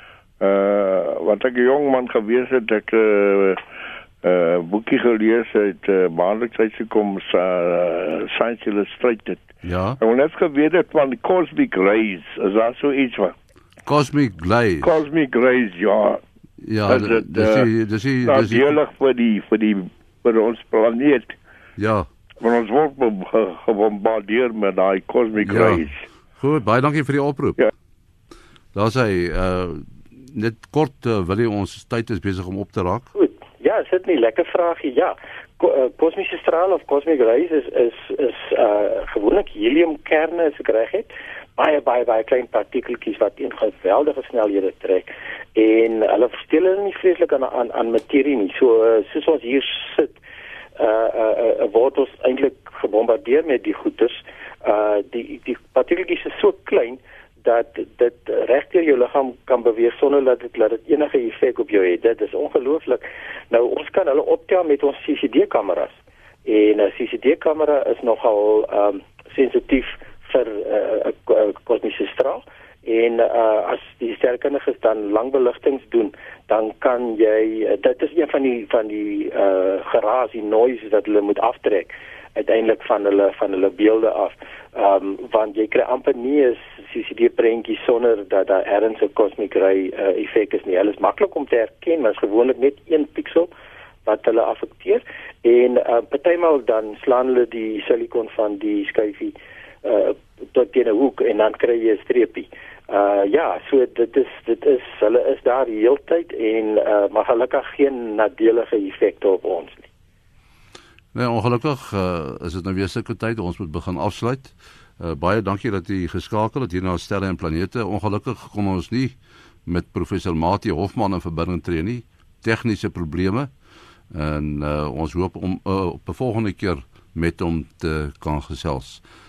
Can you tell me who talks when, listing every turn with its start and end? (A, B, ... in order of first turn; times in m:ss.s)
0:00.4-0:03.6 A
0:04.2-0:13.3 A
0:09.6-0:10.0 B
0:13.8-0:14.9 B
0:14.8-0:16.2 A
0:16.6-0:18.8 B
0:16.9-0:17.7 A
0:18.2-0:21.4 A
0:21.8-0:22.1 B
0:22.4-0:26.0 A
0:25.4-0:25.8 B
0:26.4-0:27.6 B
0:28.7-0:33.1 B
0:33.1-0:50.1 C
0:50.8-1:33.5 C
1:34.0-1:49.9 C
1:51.1-2:03.5 B
2:04.1-2:09.0 B